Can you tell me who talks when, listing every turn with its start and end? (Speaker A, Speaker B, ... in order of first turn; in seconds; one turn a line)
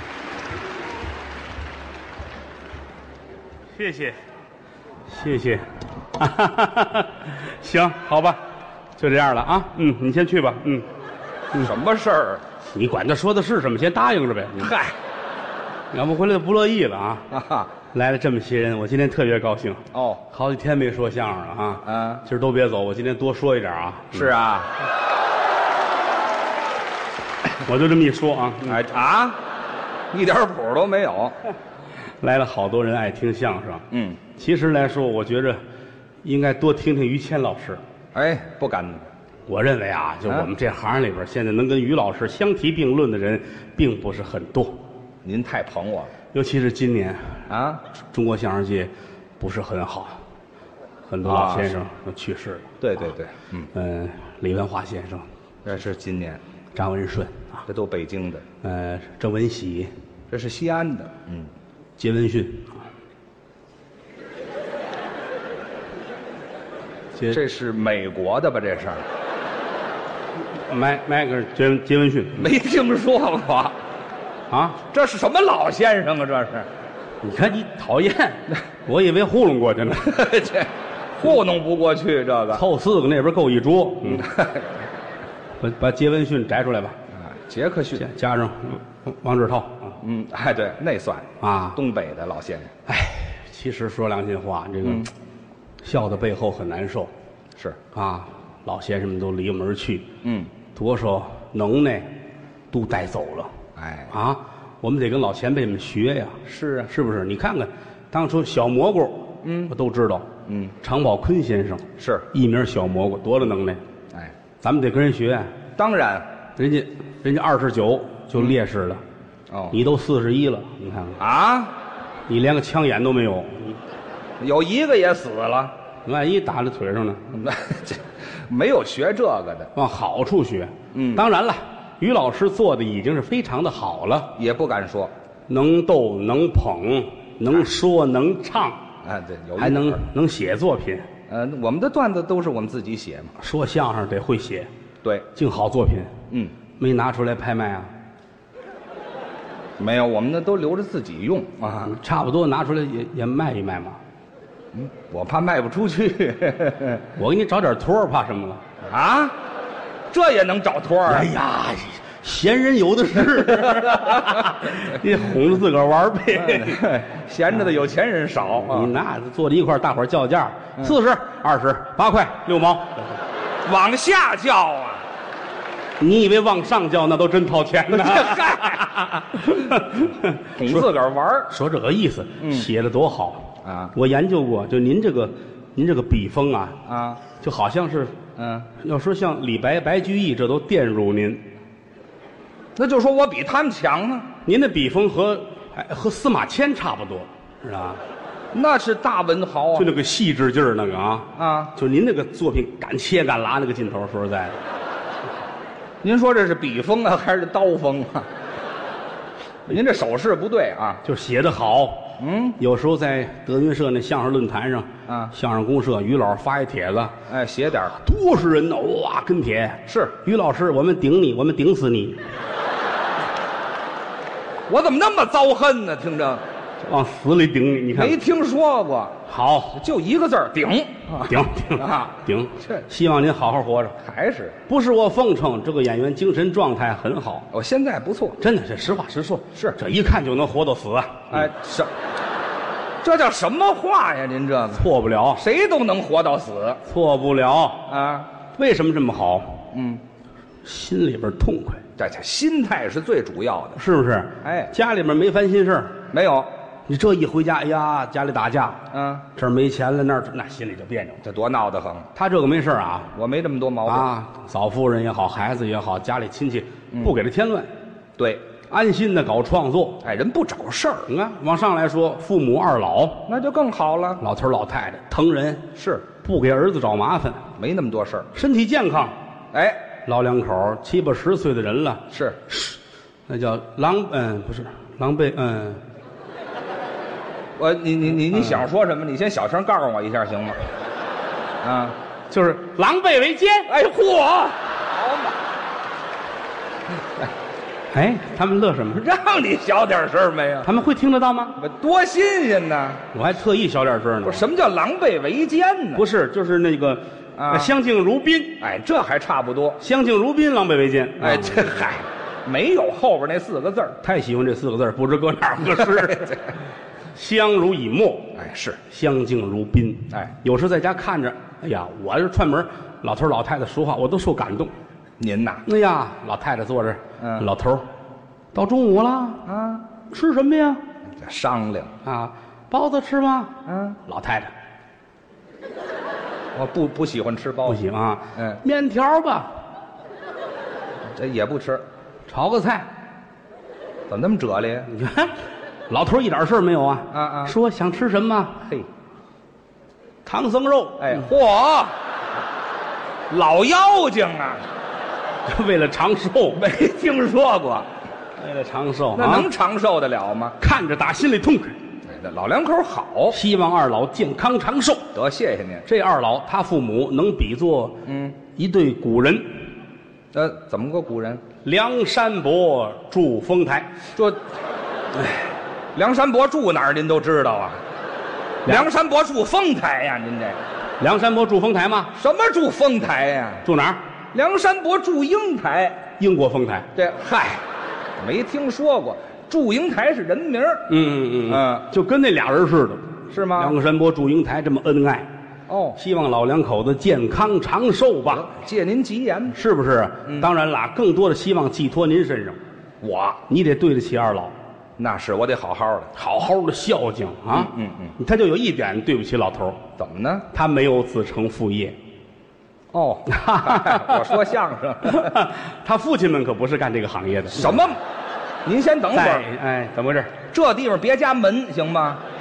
Speaker A: 3.8-4.2
Speaker A: 5.1-8.4
Speaker A: 9.0-10.8
Speaker B: 11.6-12.4
Speaker A: 12.7-14.7
Speaker B: 14.6-14.9
Speaker A: 15.9-17.2
Speaker B: 17.3-17.7
Speaker A: 17.9-24.3
Speaker B: 19.9-20.2
Speaker B: 21.8-22.2
Speaker B: 24.1-24.7
Speaker A: 27.6-28.8
Speaker B: 28.7-29.4
Speaker B: 30.1-31.3
Speaker A: 32.2-35.6
Speaker B: 33.9-34.2
Speaker A: 36.2-37.8
Speaker B: 38.1-39.0
Speaker A: 39.5-44.7
Speaker B: 45.2-46.1
Speaker A: 46.3-47.4
Speaker B: 47.5-47.8
Speaker A: 48.1-50.2
Speaker A: 51.1-52.7
Speaker B: 51.2-51.8
Speaker B: 52.8-53.7
Speaker A: 53.7-55.2
Speaker B: 55.6-56.4
Speaker A: 56.7-57.6
Speaker B: 57.7-58.4
Speaker A: 58.6-59.9
Speaker B: 60.3-61.5
Speaker A: 62.0-62.8
Speaker B: 67.3-69.0
Speaker A: 70.7-72.5
Speaker B: 72.4-73.8
Speaker A: 74.5-74.8
Speaker B: 74.9-76.7
Speaker A: 77.2-80.2
Speaker B: 80.0-82.6
Speaker A: 82.5-84.3
Speaker B: 84.1-84.7
Speaker A: 85.6-87.0
Speaker B: 87.2-88.1
Speaker A: 88.0-90.0
Speaker B: 90.0-92.7
Speaker A: 91.4-91.8
Speaker A: 92.8-95.1
Speaker B: 94.8-95.1
Speaker A: 95.8-97.1
Speaker A: 97.9-100.0
Speaker B: 100.2-100.5
Speaker A: 100.7-102.1
Speaker A: 102.7-103.5
Speaker B: 103.8-104.1
Speaker A: 104.1-110.3
Speaker B: 106.5-106.9
Speaker B: 109.4-109.7
Speaker B: 110.5-110.7
Speaker A: 110.8-113.8
Speaker B: 112.0-112.2
Speaker A: 114.6-115.5
Speaker B: 115.8-116.2
Speaker A: 116.6-119.0
Speaker B: 119.5-119.8
Speaker A: 119.7-121.2
Speaker B: 121.2-121.7
Speaker A: 122.3-123.8
Speaker B: 124.4-125.7
Speaker A: 126.0-127.2
Speaker B: 127.3-129.7
Speaker A: 129.7-134.3
Speaker B: 130.9-131.2
Speaker B: 134.3-135.1
Speaker A: 135.5-138.8
Speaker B: 139.0-140.0
Speaker A: 139.6-141.1
Speaker B: 141.3-143.3
Speaker A: 143.4-144.7
Speaker A: 145.3-146.1
Speaker A: 146.8-147.9
Speaker B: 149.8-151.9
Speaker A: 151.8-154.0
Speaker B: 154.7-157.0
Speaker A: 157.2-158.6
Speaker B: 158.8-159.4
Speaker B: 160.1-161.3
Speaker A: 161.1-166.8
Speaker B: 163.6-164.3
Speaker B: 166.3-168.9
Speaker A: 168.6-173.1
Speaker B: 173.6-175.0
Speaker A: 176.0-178.6
Speaker B: 177.9-179.8
Speaker A: 179.4-180.7
Speaker B: 180.6-181.5
Speaker A: 181.5-186.8
Speaker B: 182.4-182.7
Speaker B: 183.6-183.9
Speaker B: 186.8-187.2
Speaker A: 187.3-188.2
Speaker B: 188.4-188.7
Speaker A: 188.7-191.4
Speaker B: 192.8-194.3
Speaker A: 194.4-198.0
Speaker B: 198.5-199.9
Speaker A: 199.7-204.6
Speaker B: 201.3-201.7
Speaker B: 206.0-208.3
Speaker B: 209.7-211.0
Speaker A: 211.0-217.1
Speaker B: 212.2-212.6
Speaker B: 215.1-215.3
Speaker B: 217.3-217.9
Speaker A: 217.9-222.2
Speaker B: 219.9-220.1
Speaker B: 224.7-226.4
Speaker A: 226.8-228.2
Speaker B: 227.9-229.2
Speaker A: 229.3-229.8
Speaker B: 229.7-232.8
Speaker A: 231.2-234.0
Speaker B: 234.0-234.6
Speaker A: 234.7-237.5
Speaker B: 237.5-238.4
Speaker A: 238.4-241.5
Speaker B: 241.3-241.9
Speaker B: 243.0-246.8
Speaker A: 244.7-245.4
Speaker A: 246.8-247.8
Speaker B: 247.9-248.3
Speaker A: 248.6-249.6
Speaker B: 249.7-250.0
Speaker A: 250.6-251.8
Speaker B: 252.0-253.8
Speaker A: 253.8-255.9
Speaker B: 254.4-254.7
Speaker B: 256.1-256.5
Speaker A: 256.9-258.8
Speaker B: 258.9-259.2
Speaker A: 259.3-261.2
Speaker B: 261.2-262.1
Speaker A: 262.1-263.1
Speaker B: 263.1-264.1
Speaker A: 263.9-267.7
Speaker B: 268.2-268.4
Speaker A: 268.7-270.0
Speaker B: 270.0-271.1
Speaker A: 271.1-273.2
Speaker B: 273.3-274.2
Speaker A: 274.2-277.4
Speaker B: 275.8-276.0
Speaker B: 277.6-278.3
Speaker A: 278.3-279.1
Speaker B: 279.5-279.8
Speaker A: 280.1-285.8
Speaker B: 282.1-282.4
Speaker B: 287.6-290.6
Speaker B: 291.6-291.9
Speaker A: 292.3-293.7
Speaker B: 293.7-295.3
Speaker A: 297.9-299.0
Speaker B: 298.9-300.7
Speaker A: 300.6-301.6
Speaker B: 301.6-303.0
Speaker A: 303.1-304.4
Speaker B: 304.2-306.0
Speaker A: 305.9-308.6
Speaker B: 307.4-307.7
Speaker B: 308.6-309.8
Speaker A: 309.8-311.8
Speaker B: 311.2-314.0
Speaker A: 314.0-316.4
Speaker B: 315.9-316.4
Speaker A: 317.1-318.3
Speaker B: 318.3-318.8
Speaker A: 318.9-324.7
Speaker B: 325.2-325.6
Speaker A: 325.6-327.9
Speaker B: 327.2-327.4
Speaker A: 328.5-329.4
Speaker B: 329.4-329.8
Speaker A: 330.1-330.8
Speaker B: 331.2-331.9
Speaker A: 332.0-333.5
Speaker B: 333.6-334.0
Speaker A: 334.1-334.5
Speaker B: 336.5-337.8
Speaker A: 337.6-339.5
Speaker B: 338.3-338.6
Speaker B: 341.1-341.8
Speaker A: 342.3-342.9
Speaker B: 344.1-344.9
Speaker A: 344.9-345.4
Speaker A: 345.9-348.6
Speaker B: 347.1-347.5
Speaker A: 350.2-351.2
Speaker B: 351.0-351.9
Speaker B: 353.3-354.6
Speaker A: 355.4-356.6
Speaker B: 356.6-357.9
Speaker A: 358.4-359.5
Speaker B: 359.1-360.6
Speaker A: 360.6-361.8
Speaker B: 362.1-363.4
Speaker A: 363.3-365.1
Speaker B: 365.1-365.8
Speaker A: 365.9-368.0
Speaker B: 368.1-368.4
Speaker A: 368.5-369.5
Speaker B: 370.3-371.4
Speaker A: 371.6-373.9
Speaker B: 374.1-374.4
Speaker A: 375.2-375.4
Speaker B: 375.9-377.8
Speaker B: 378.6-380.6
Speaker A: 381.0-382.1
Speaker B: 382.1-383.6
Speaker A: 383.6-384.0
Speaker B: 384.3-386.1
Speaker A: 386.2-386.9
Speaker B: 386.9-387.6
Speaker B: 388.2-390.9
Speaker A: 390.9-395.3
Speaker B: 391.5-391.8
Speaker B: 393.3-393.8
Speaker B: 395.7-396.0
Speaker A: 395.9-398.5
Speaker B: 398.3-399.6
Speaker A: 399.5-402.6
Speaker B: 403.0-403.4
Speaker A: 403.5-404.5
Speaker B: 405.0-406.1
Speaker A: 406.1-409.8
Speaker B: 407.5-408.1
Speaker B: 410.0-410.4
Speaker A: 410.5-411.9
Speaker B: 412.9-415.4
Speaker A: 413.3-414.4
Speaker A: 415.0-417.8
Speaker B: 417.5-418.0
Speaker B: 418.6-419.5
Speaker A: 419.1-420.3
Speaker B: 420.5-422.2